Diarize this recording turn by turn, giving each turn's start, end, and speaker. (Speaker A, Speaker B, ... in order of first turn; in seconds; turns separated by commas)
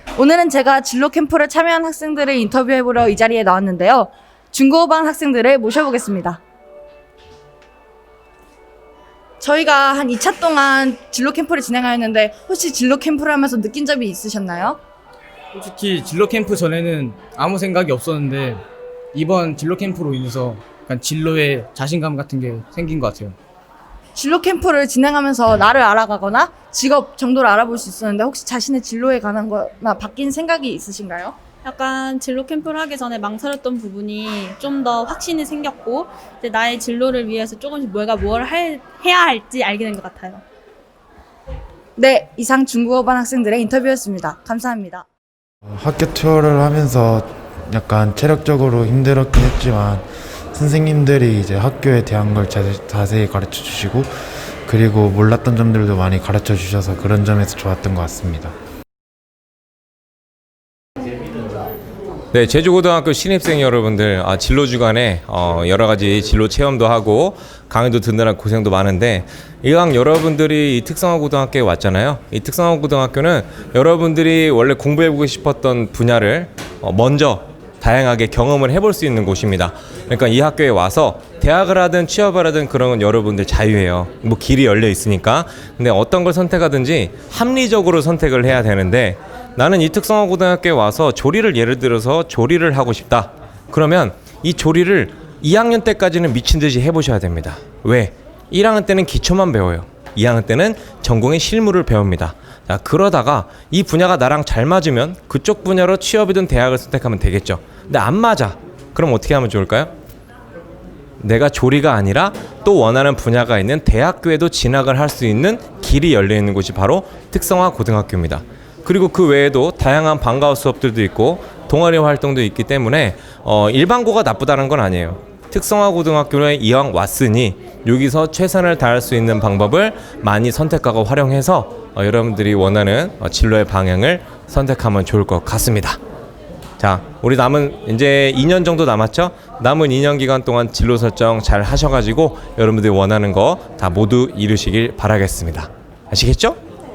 Speaker A: 0.1-6.4, Speaker A: 9.4-14.8, Speaker B: 15.5-23.4, Speaker A: 24.1-31.4, Speaker C: 31.6-40.4, Speaker A: 42.0-45.1, Speaker D: 45.7-54.1, Speaker D: 54.7-58.5, Speaker E: 62.3-109.9, Speaker E: 111.2-136.0, Speaker E: 136.8-146.6